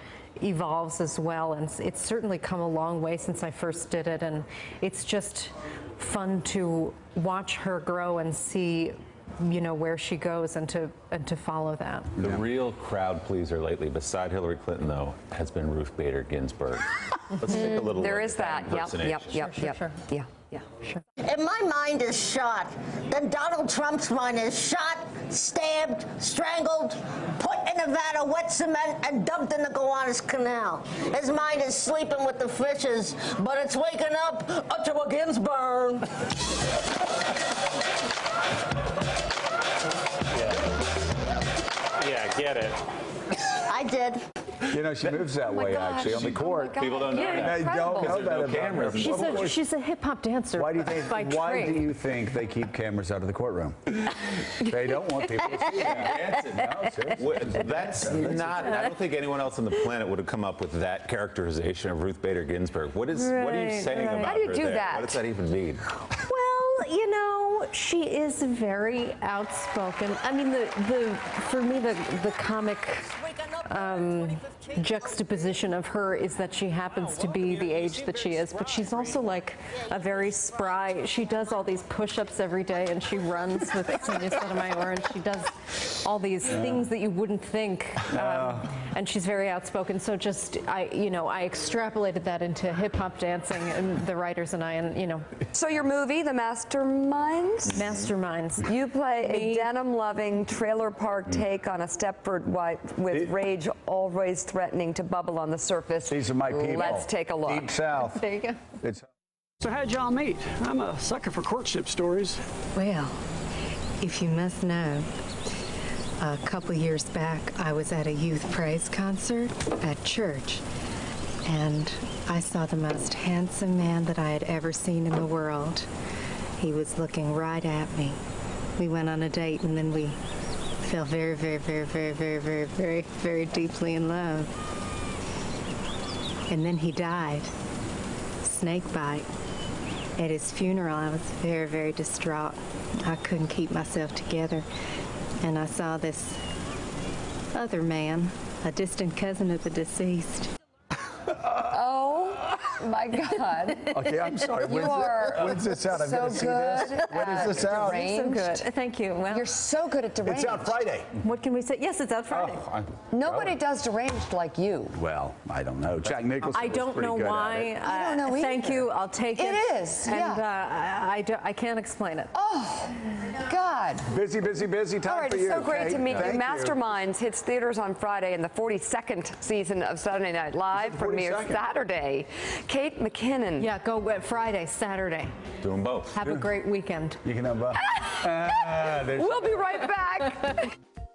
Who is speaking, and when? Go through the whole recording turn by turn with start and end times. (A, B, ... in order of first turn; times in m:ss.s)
0:00.4-0:12.1 A
0:12.2-0:19.5 B
0:17.5-0:20.5 C
0:19.4-0:20.0 A
0:21.2-0:36.1 D
0:42.0-0:42.8 B
0:43.7-0:44.2 D
0:44.7-0:46.8 E
0:45.4-0:48.2 C
0:46.1-0:49.5 B
0:47.1-0:47.5 A
0:47.3-0:49.6 E
0:49.0-0:51.9 A
0:50.6-0:58.5 E
0:55.6-1:05.9 B
1:03.1-1:04.3 A
1:04.0-1:05.2 C
1:06.2-1:35.3 A
1:28.1-1:28.6 E
1:35.5-1:37.8 C
1:37.7-1:39.7 A
1:38.6-1:47.7 C
1:46.1-1:48.2 E
1:48.0-1:48.6 A
1:49.6-1:52.4 F
1:52.7-1:53.2 G
1:54.0-1:55.1 G
1:56.2-2:00.6 G
2:01.4-2:05.9 G
2:06.6-2:08.2 G
2:08.8-2:10.2 G
2:10.8-2:14.5 G
2:16.5-2:17.5 G
2:18.4-2:19.2 G
2:20.2-2:24.6 G
2:25.4-2:26.4 G
2:27.5-2:30.5 G
2:31.5-2:34.0 C
2:33.9-2:38.0 E
2:34.5-2:38.6 C
2:37.6-2:39.5 A
2:39.3-2:40.8 C
2:40.2-2:41.1 E
2:41.2-2:42.6 A
2:42.3-2:43.6 E
2:43.1-2:45.0 C
2:44.9-2:47.7 E
2:46.5-2:52.3 A
2:47.8-2:50.4 C
2:52.3-2:54.0 C
2:54.0-2:56.8 E
2:55.0-3:03.7 C
3:00.7-3:01.6 E
3:03.6-3:05.3 A
3:05.6-3:06.1 B
3:06.1-3:07.2 A
3:06.2-3:06.5 E
3:07.2-3:09.4 E
3:07.8-3:10.7 C